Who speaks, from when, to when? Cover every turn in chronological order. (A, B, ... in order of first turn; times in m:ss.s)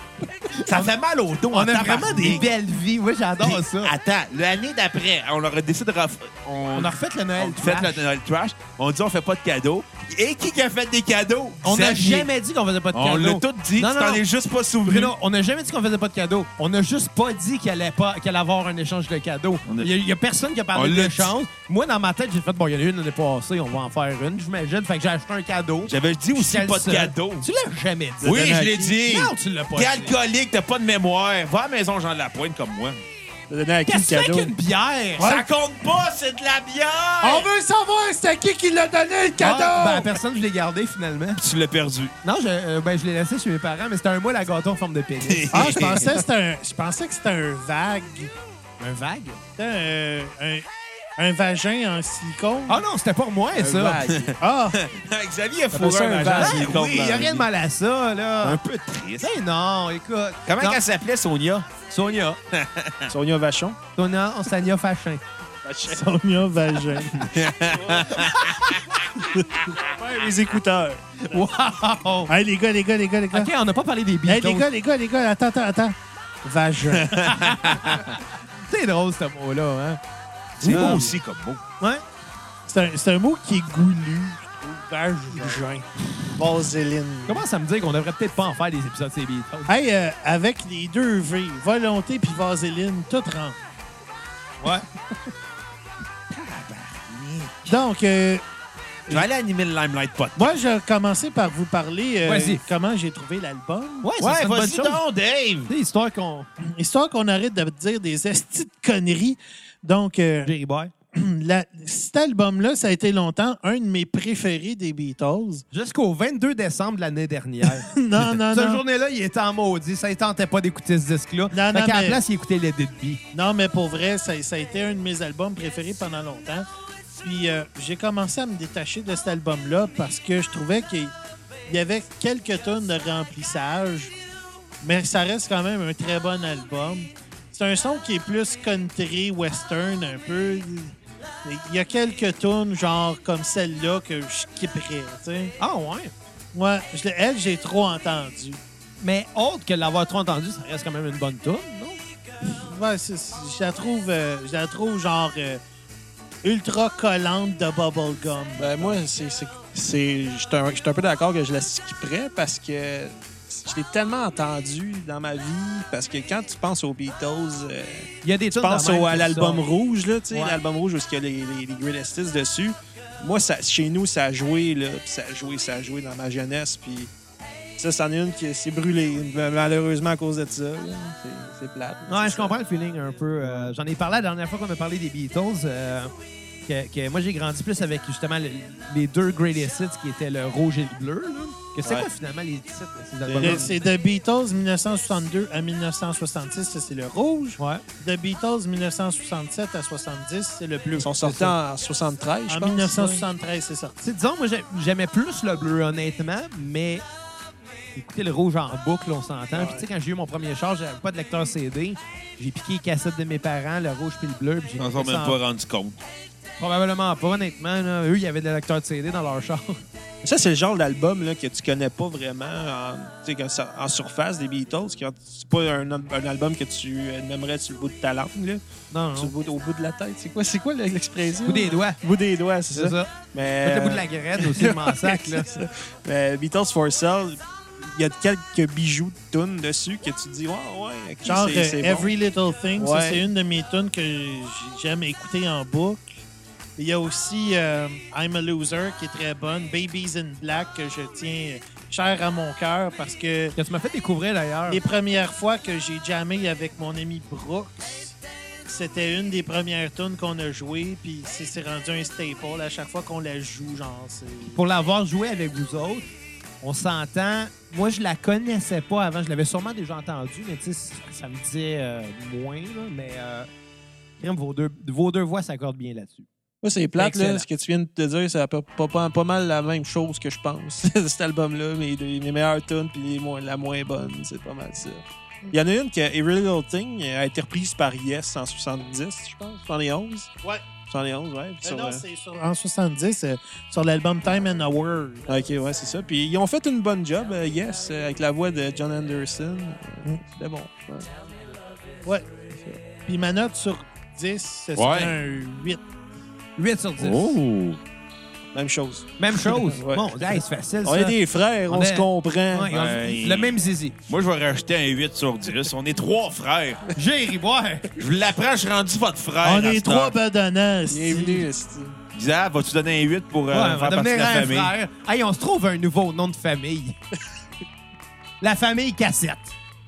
0:00.6-0:00.9 A
0:00.6-0:02.5 B
0:01.5-0:03.9 A
0:03.4-0:12.3 B
0:06.8-0:08.0 A
0:11.6-0:14.2 A
0:12.9-0:15.2 B
0:14.8-0:30.1 A
0:19.6-0:19.9 B
0:20.7-0:21.3 B
0:25.9-0:27.5 B
0:28.2-0:33.0 B
0:28.3-0:28.7 C
0:33.5-0:34.5 C
0:33.9-0:35.3 A
0:35.2-0:37.5 B
0:35.2-0:35.5 D
0:37.2-0:40.2 D
0:39.4-0:41.4 A
0:41.4-0:42.1 B
0:42.2-0:46.1 A
0:45.2-0:46.2 B
0:45.5-0:48.3 D
0:48.8-0:49.4 A
0:49.6-0:52.8 D
0:52.7-0:54.0 A
0:53.6-0:54.4 C
0:54.1-0:57.5 B
0:54.4-0:54.8 D
0:55.7-0:57.2 C
0:56.3-0:58.6 A
0:58.4-0:59.3 B
0:59.2-1:00.8 A
1:00.5-1:01.7 B
1:01.9-1:02.4 A
1:02.5-1:03.1 B
1:03.1-1:03.8 C
1:04.0-1:05.2 A
1:05.6-1:06.0 C
1:05.9-1:07.2 D
1:07.2-1:08.8 B
1:07.7-1:08.1 C
1:08.2-1:08.7 A
1:09.3-1:11.4 C
1:11.3-1:12.3 A
1:12.3-1:13.5 D
1:13.3-1:14.7 A
1:14.3-1:17.5 D
1:16.9-1:18.1 B
1:17.2-1:20.0 A
1:20.6-1:21.6 B
1:20.6-1:21.1 A
1:20.7-1:21.1 D
1:22.7-1:25.9 D
1:26.4-1:27.4 C
1:26.6-1:27.2 D
1:27.3-1:29.7 A
1:29.7-1:33.6 D
1:34.6-1:34.9 A
1:36.3-1:37.8 B
1:37.7-1:38.4 D
1:39.1-1:40.6 B
1:40.4-1:44.1 D
1:42.2-1:42.6 A
1:44.0-1:45.0 A
1:44.2-1:45.7 B
1:45.7-1:46.5 A
1:46.6-1:50.5 D
1:50.5-1:50.9 A
1:51.1-1:55.6 D
1:55.7-2:03.2 A
1:57.7-1:58.8 D
2:01.5-2:02.2 D
2:03.3-2:06.7 D
2:07.2-2:11.2 D
2:11.7-2:14.1 D
2:14.8-2:25.5 D
2:25.6-2:26.1 A
2:26.5-2:28.6 D
2:29.0-2:32.0 A
2:32.4-2:35.6 D
2:36.4-2:39.0 D
2:38.6-2:57.1 C
2:48.2-2:49.6 A
2:50.3-2:50.6 A
2:57.8-3:02.6 C
3:02.1-3:06.1 A
3:03.4-3:03.7 C
3:06.7-3:13.7 A
3:13.3-3:13.8 C
3:13.4-3:21.2 D
3:21.0-3:23.2 C
3:21.2-3:21.5 A
3:22.5-3:24.0 D
3:24.0-3:27.0 A
3:28.0-3:35.4 A
3:29.5-3:29.8 C
3:34.8-3:36.0 B
3:36.6-3:39.8 A
3:40.2-3:48.6 C
3:48.9-3:49.3 A
3:49.2-4:02.1 C
3:51.5-3:52.0 A
3:52.7-3:55.6 A
4:01.2-4:06.1 D
4:02.8-4:03.3 C
4:06.8-4:13.6 D
4:13.6-4:14.8 A
4:14.7-4:24.6 D
4:24.5-4:26.1 A
4:26.6-4:33.5 A
4:34.2-4:36.3 A
4:36.6-4:50.3 C
4:37.0-4:37.5 A
4:50.9-4:52.0 C
4:51.6-4:55.3 D
4:55.3-5:01.1 C
5:02.5-5:02.8 C
5:03.0-5:05.8 D
5:04.8-5:05.1 B
5:06.6-5:07.4 A
5:07.0-5:07.8 B
5:08.5-5:12.7 C
5:09.2-5:11.2 A
5:11.7-5:14.0 A
5:12.7-5:13.6 B
5:14.1-5:16.9 B
5:17.0-5:17.9 A
5:18.0-5:20.2 B
5:19.4-5:21.5 D
5:20.9-5:22.0 C
5:22.1-5:24.7 B
5:23.5-5:27.0 A
5:28.4-5:29.5 A